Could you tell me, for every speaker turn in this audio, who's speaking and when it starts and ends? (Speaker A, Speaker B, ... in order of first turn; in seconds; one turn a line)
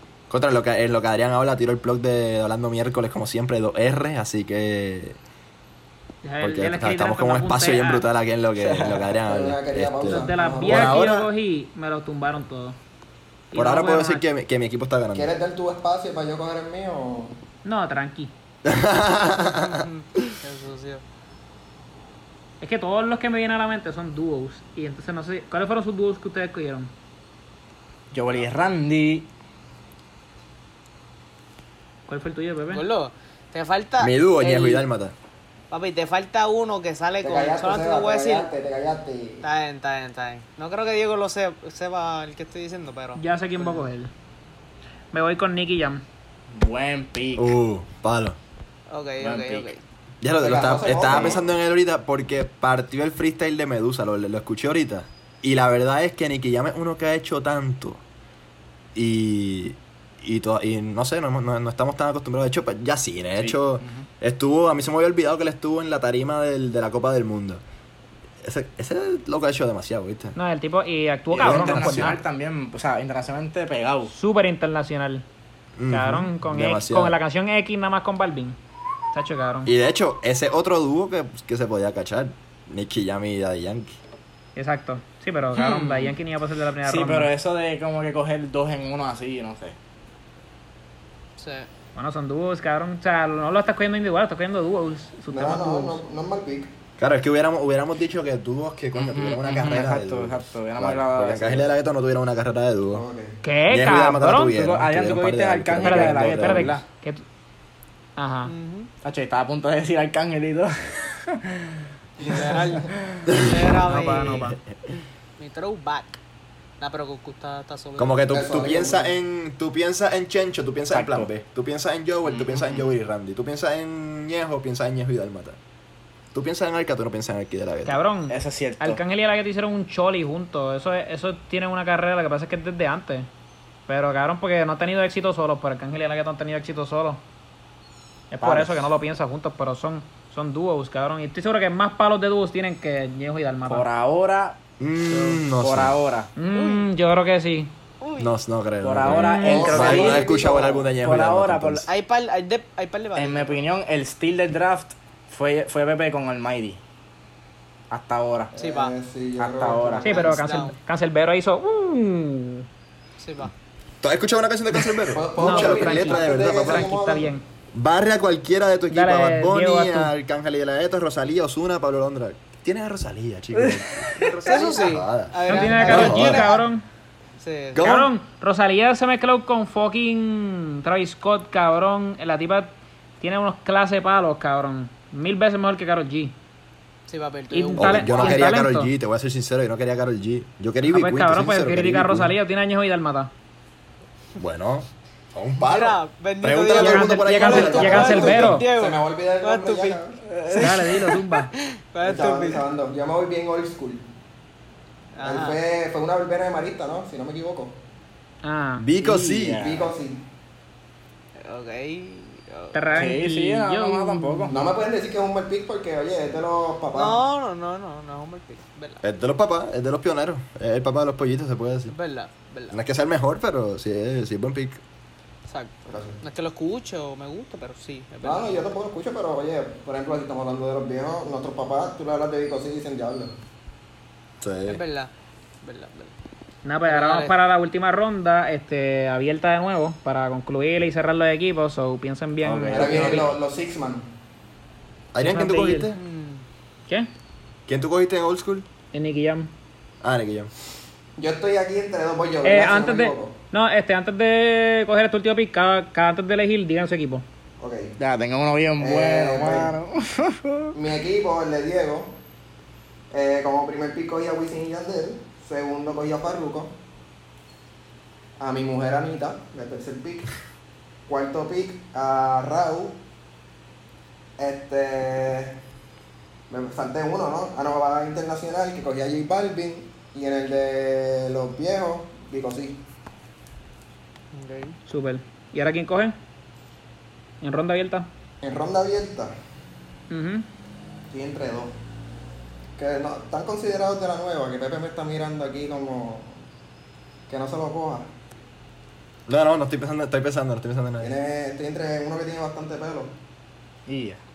Speaker A: 0.3-5.2
Speaker B: 6.2-8.1
Speaker A: 6.4-11.3
Speaker C: 8.6-9.1
Speaker D: 9.2-11.0
Speaker B: 10.0-12.8
Speaker B: 13.5-14.3
Speaker A: 13.6-15.3
Speaker D: 15.1-17.4
Speaker B: 17.6-18.3
Speaker A: 18.6-20.3
Speaker E: 19.5-21.0
Speaker B: 22.6-26.9
Speaker C: 28.1-29.3
Speaker B: 32.1-32.9
Speaker E: 32.7-34.9
Speaker A: 34.0-35.1
Speaker E: 35.7-38.5
Speaker D: 37.2-39.5
Speaker E: 39.4-43.2
Speaker B: 43.1-44.1
Speaker B: 45.1-46.0
Speaker C: 46.5-47.5
Speaker A: 47.4-48.4
Speaker E: 48.9-49.8
Speaker C: 49.2-49.7
Speaker A: 50.2-58.0
Speaker D: 50.4-51.4
Speaker A: 59.0-67.6
Speaker C: 63.4-64.1
Speaker A: 68.4-70.4
Speaker B: 70.4-72.2
Speaker C: 71.3-74.1
Speaker A: 71.4-72.2
Speaker B: 74.1-75.2
Speaker A: 75.8-77.2
Speaker B: 75.9-78.6
Speaker B: 79.1-79.7
Speaker A: 79.7-84.0
Speaker B: 84.6-87.3
Speaker C: 85.6-86.1
Speaker C: 86.8-89.8
Speaker E: 91.4-91.7
Speaker B: 92.0-96.0
Speaker D: 95.3-96.7
Speaker A: 97.0-103.0
Speaker C: 99.0-101.7
Speaker D: 102.9-103.4
Speaker B: 103.4-104.6
Speaker A: 103.7-106.8
Speaker C: 104.5-106.8
Speaker B: 105.8-107.2
Speaker B: 108.2-108.5
Speaker E: 108.5-108.9
Speaker C: 109.0-111.8
Speaker D: 112.2-112.8
Speaker E: 112.3-114.5
Speaker C: 112.4-113.3
Speaker A: 113.3-113.6
Speaker B: 113.8-114.6
Speaker E: 115.4-116.2
Speaker E: 116.8-118.2
Speaker A: 118.0-125.6
Speaker D: 118.3-119.1
Speaker C: 120.9-121.3
Speaker E: 122.3-122.7
Speaker A: 126.3-128.0
Speaker B: 127.9-133.3
Speaker C: 128.3-129.0
Speaker B: 133.9-137.2
Speaker B: 138.3-143.9
Speaker C: 138.4-138.8
Speaker C: 143.7-144.6
Speaker A: 144.8-146.0
Speaker C: 145.1-146.3
Speaker B: 146.4-147.7
Speaker E: 146.5-146.9
Speaker E: 148.0-148.3
Speaker A: 148.2-151.9
Speaker C: 148.8-150.3
Speaker B: 149.1-150.2
Speaker D: 149.4-150.9
Speaker C: 151.0-151.9
Speaker E: 151.8-153.6
Speaker C: 153.2-156.8
Speaker C: 157.9-158.5
Speaker D: 158.5-160.4
Speaker E: 158.6-159.0
Speaker C: 159.4-160.2
Speaker B: 160.0-162.7
Speaker E: 160.1-160.8
Speaker E: 163.2-163.5
Speaker A: 164.0-166.9
Speaker D: 165.1-167.3
Speaker B: 165.4-167.4
Speaker A: 167.7-176.5
Speaker B: 168.9-170.1
Speaker C: 173.6-173.8
Speaker E: 174.3-176.6
Speaker B: 175.5-176.8
Speaker E: 177.4-177.9
Speaker A: 177.7-178.1
Speaker B: 177.8-186.4
Speaker E: 187.1-188.6
Speaker B: 187.5-188.9
Speaker A: 187.8-192.3
Speaker B: 190.8-193.3
Speaker A: 194.4-198.5
Speaker E: 195.6-202.7
Speaker B: 196.7-198.7
Speaker D: 197.4-200.2
Speaker C: 200.3-200.9
Speaker B: 200.6-201.5
Speaker D: 202.0-204.0
Speaker E: 205.1-205.6
Speaker D: 205.2-207.8
Speaker B: 208.4-208.9
Speaker A: 208.8-209.7
Speaker C: 209.0-209.9
Speaker D: 209.5-210.2
Speaker E: 211.4-213.1
Speaker B: 212.7-214.5
Speaker C: 212.9-214.6
Speaker D: 214.5-217.2
Speaker E: 216.9-219.0
Speaker A: 219.0-221.9
Speaker E: 221.9-222.8
Speaker A: 222.7-224.8
Speaker E: 225.5-228.7
Speaker D: 225.9-226.2
Speaker D: 228.2-233.3
Speaker A: 234.4-234.8
Speaker E: 234.7-236.1
Speaker B: 236.7-243.3
Speaker E: 236.9-237.3
Speaker C: 242.4-243.4
Speaker D: 242.7-244.1
Speaker A: 245.1-246.0
Speaker B: 245.2-245.9
Speaker E: 245.9-246.4
Speaker A: 247.7-248.7
Speaker B: 248.9-249.5
Speaker A: 250.0-250.5
Speaker D: 251.2-253.3
Speaker B: 252.4-257.2
Speaker D: 257.6-257.9
Speaker C: 258.0-260.8
Speaker D: 258.8-259.7
Speaker D: 260.7-262.1
Speaker D: 263.1-266.7
Speaker D: 268.4-270.3
Speaker D: 271.1-273.0
Speaker D: 274.4-275.6
Speaker D: 276.5-282.8
Speaker E: 284.3-284.8
Speaker B: 284.9-286.2
Speaker B: 287.4-288.1
Speaker D: 288.4-289.3
Speaker B: 290.1-290.5
Speaker D: 291.1-291.7
Speaker D: 292.8-296.4
Speaker D: 297.3-298.1
Speaker A: 299.3-301.1
Speaker D: 301.0-303.1
Speaker C: 303.9-304.2